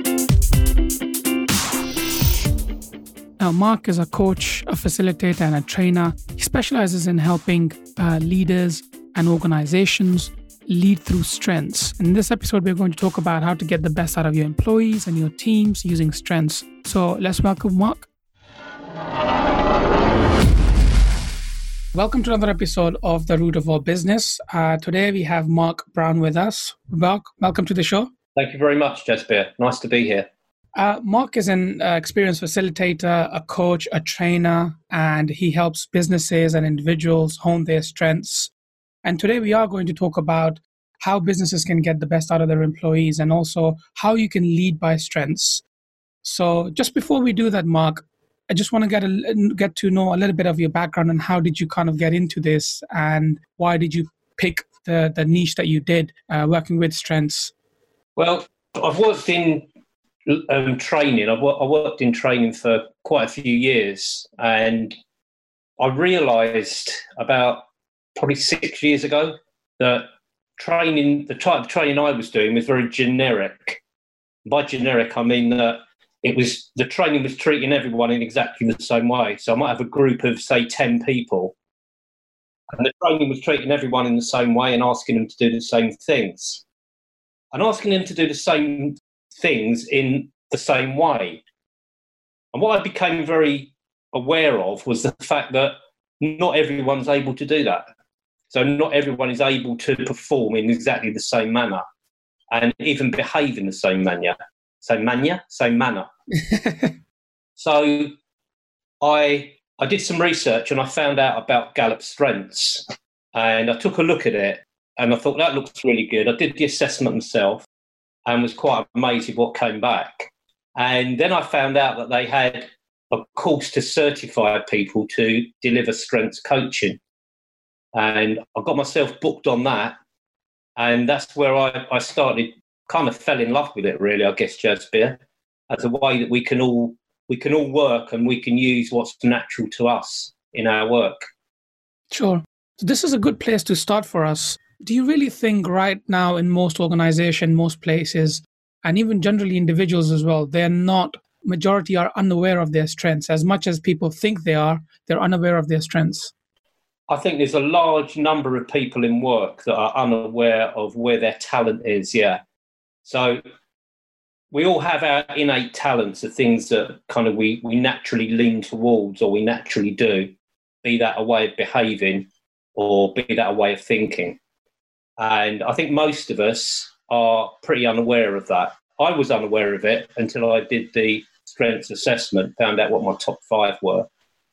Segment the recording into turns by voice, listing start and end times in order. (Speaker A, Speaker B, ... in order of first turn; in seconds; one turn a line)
Speaker A: 3.4-18.1
Speaker A: 21.9-28.1
Speaker B: 28.3-30.3
Speaker A: 30.7-38.5
Speaker A: 39.0-45.6
Speaker A: 46.2-57.5
Speaker B: 58.1-59.7
Speaker B: 60.2-64.9
Speaker B: 65.8-67.6
Speaker B: 68.2-73.8
Speaker B: 74.4-81.5
Speaker B: 82.7-86.6
Speaker B: 87.5-91.4
Speaker B: 92.5-97.8
Speaker B: 98.5-101.8
Speaker B: 102.5-106.1
Speaker A: 106.3-106.9
Speaker B: 107.6-108.1
Speaker B: 109.0-117.7
Speaker B: 118.2-127.0
Speaker B: 127.9-130.0
Speaker B: 130.8-141.2
Speaker A: 142.1-156.3
Speaker B: 157.1-162.4
Speaker B: 163.0-163.4
Speaker B: 164.5-174.4
Speaker B: 175.2-184.1